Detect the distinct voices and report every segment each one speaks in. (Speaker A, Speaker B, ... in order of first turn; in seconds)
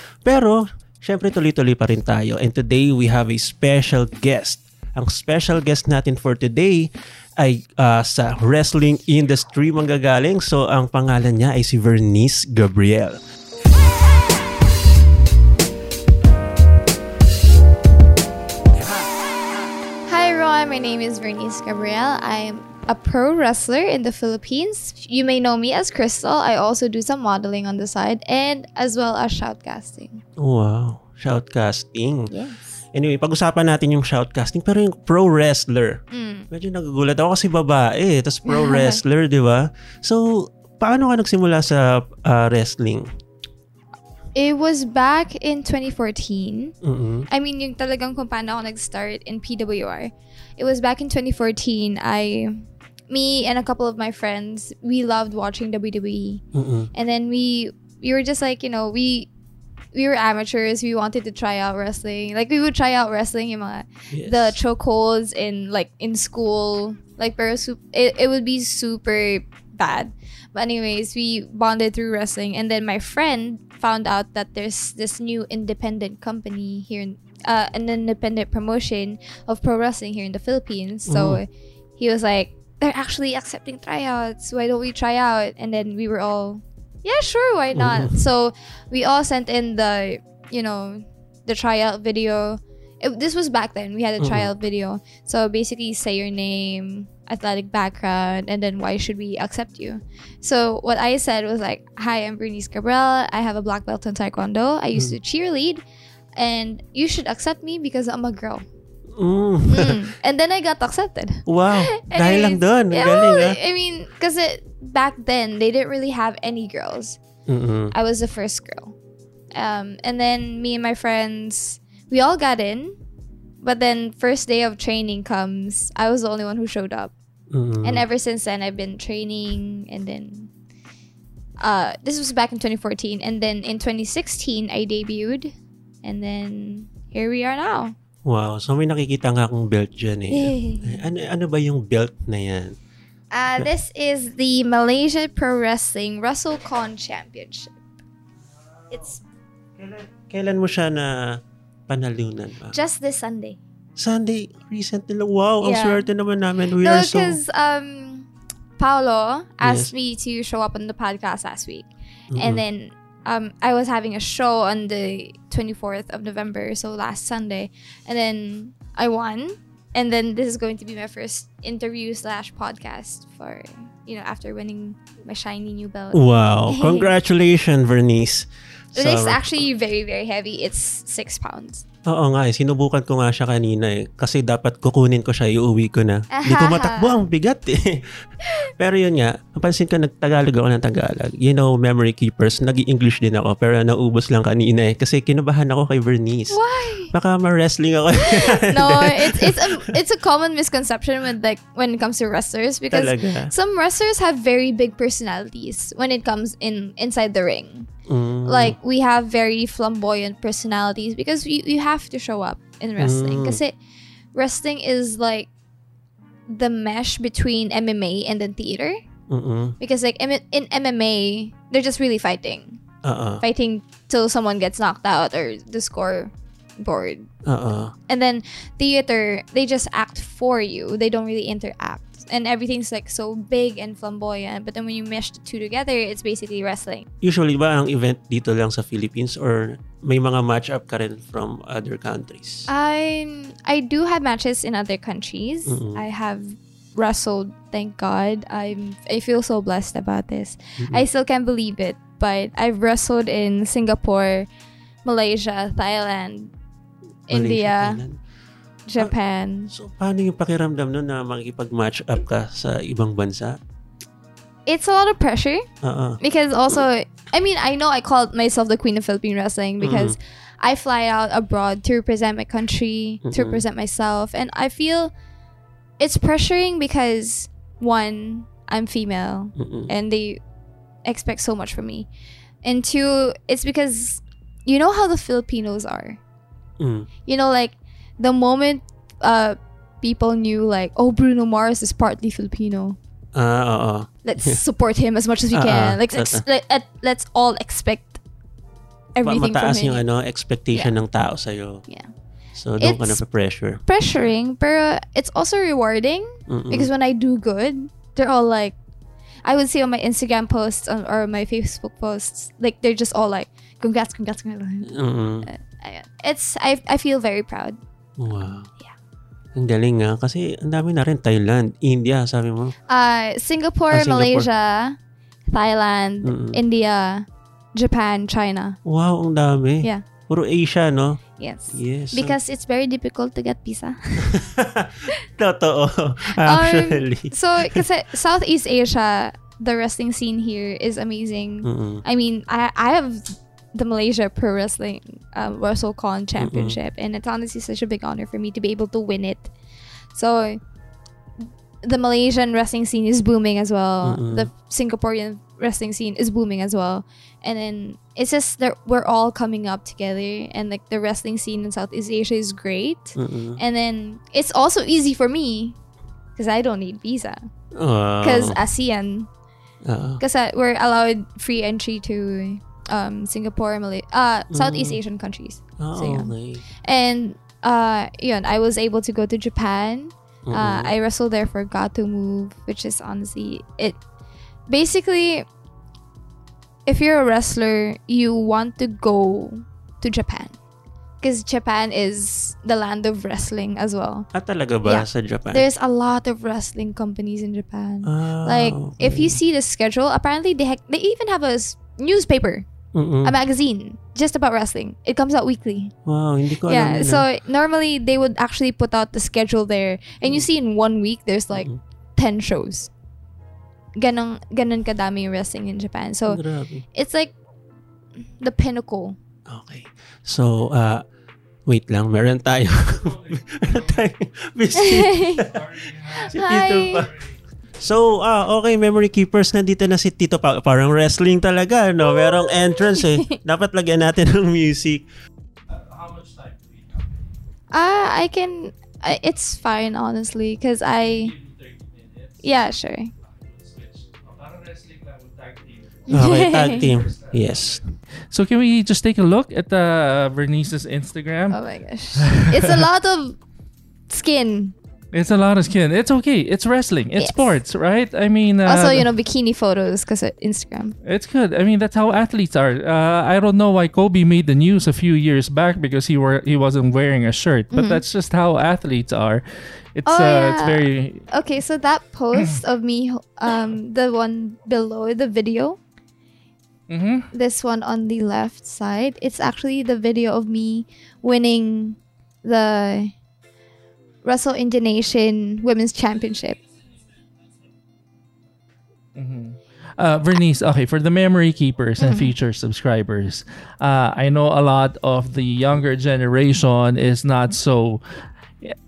Speaker A: 0.2-13.2, 30.4-32.3, 32.9-43.1, 46.8-47.3, 56.5-56.9, 64.1-64.6, 81.1-81.4, 87.7-88.2, 94.2-94.5, 109.1-110.0, 111.5-113.6, 117.5-117.9, 127.5-128.0, 138.2-142.8, 149.8-152.8, 154.0-157.4, 159.6-159.9, 162.3-162.6, 176.1-179.6, 182.1-188.1, 188.8-196.6, 197.1-200.0, 202.9-203.5, 208.1-208.8, 213.0-213.6, 219.3-219.8, 223.0-223.4, 227.4-227.9, 237.2-242.7, 245.7-246.0, 257.3-258.2, 259.7-263.6, 265.8-266.2, 269.8-270.1, 273.2-273.6, 279.6-279.9, 286.8-287.1, 293.3-294.6, 295.5-296.4, 299.2-301.9, 302.6-303.8, 306.5-306.9, 314.9-315.5, 318.2-318.7, 319.5-322.7, 323.9-324.5, 326.2-326.6, 328.8-331.2, 331.7-332.4, 334.2-337.8, 341.6-342.0, 346.4-346.8, 354.0-354.5, 363.1-363.6, 367.7-368.6, 369.8-370.2, 374.5-375.0, 375.8-376.6, 380.4-380.9, 394.3-395.6, 398.0-399.4, 402.9-403.3, 406.0-407.2, 416.3-416.8, 419.5-421.0, 421.7-425.6, 426.3-427.1, 427.8-435.1, 446.1-447.8
Speaker B: 20.1-30.2, 32.3-32.8, 36.1-36.5, 38.5-39.0, 44.3-46.7, 47.3-56.4, 56.9-59.3, 59.9-105.8, 106.3-108.6, 109.7-117.2, 117.9-118.9, 119.5-123.0, 123.6-127.1, 127.8-130.5, 131.6-135.5, 136.0-137.9, 140.3-141.0, 143.3-147.7, 148.9-149.2, 152.7-153.6, 155.6-156.1, 156.8-177.1, 178.9-181.8, 186.3-187.2, 196.5-197.1, 198.1-207.9, 208.4-213.8, 214.3-215.5, 216.5-219.0, 219.8-222.8, 223.4-227.3, 228.1-237.1, 242.7-254.5, 255.0-256.5, 257.3-258.0, 258.9-259.7, 264.6-265.6, 266.2-275.1, 276.0-280.4, 281.0-282.1, 282.6-286.2, 287.2-293.0, 294.2-298.2, 299.1-300.0, 302.8-303.2, 303.8-308.8, 309.4-317.8, 322.9-325.0, 325.5-328.8, 331.4-334.4, 336.3-349.5, 350.1-350.6, 351.8-365.8, 366.4-367.4, 368.2-369.3, 370.2-376.3, 376.8-384.0, 384.7-385.5, 386.9-390.5, 391.2-394.3, 394.8-402.6, 403.2-405.9, 406.6-412.9, 414.0-416.4, 416.9-417.3, 418.4-419.1, 424.7-425.5, 426.1-427.1, 432.0-433.4, 437.7-441.3, 442.4-443.1, 446.1-446.9, 451.5-453.4, 454.1-454.7, 457.2-457.5, 458.6-460.9, 467.7-468.0, 470.0-475.8, 477.3-483.1, 484.2-486.6, 492.0-492.3
Speaker C: 423.0-424.1, 425.4-427.4, 435.7-437.4, 441.1-442.6, 443.2-451.6, 452.1-452.9, 455.1-459.1, 461.0-469.4, 469.9-471.2, 472.3-472.6, 476.9-477.3, 489.1-498.0